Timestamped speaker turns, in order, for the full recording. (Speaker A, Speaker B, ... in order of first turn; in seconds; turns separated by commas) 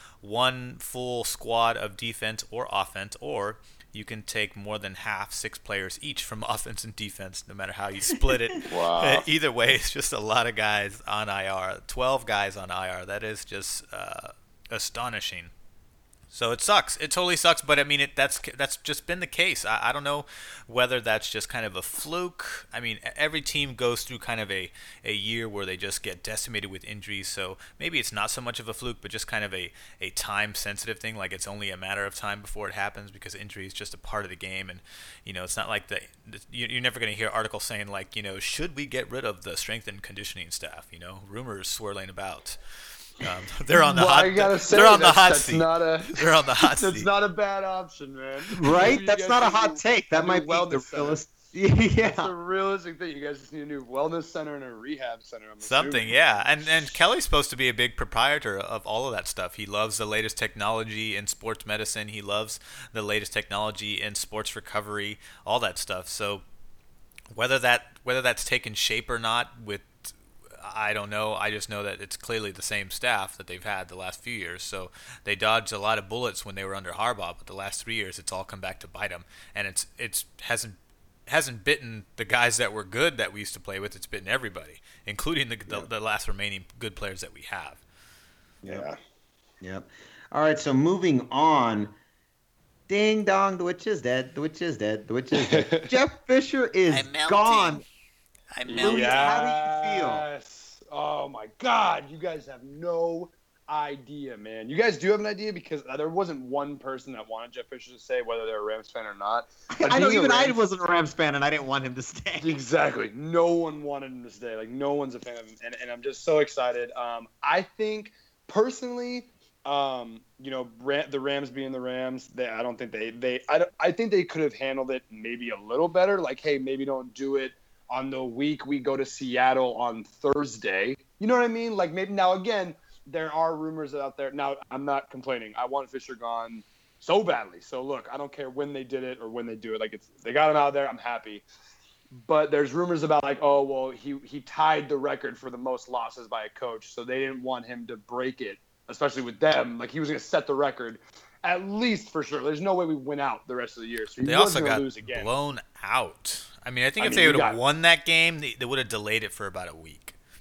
Speaker A: 0.2-15.5, Speaker B: 8.6-9.3, Speaker A: 16.3-42.6, Speaker A: 43.2-47.1, Speaker B: 43.8-51.2, Speaker C: 48.5-52.3, Speaker B: 52.0-57.0, Speaker A: 55.6-66.4, Speaker A: 67.3-87.8, Speaker B: 88.6-89.0, Speaker C: 89.6-91.9, Speaker C: 92.9-97.8, Speaker B: 95.4-95.9, Speaker A: 96.9-97.8, Speaker A: 98.5-99.4, Speaker B: 98.7-110.6, Speaker C: 98.8-100.2, Speaker C: 109.7-112.6, Speaker B: 112.4-141.4, Speaker B: 142.1-155.3, Speaker A: 154.2-160.2, Speaker B: 157.0-157.6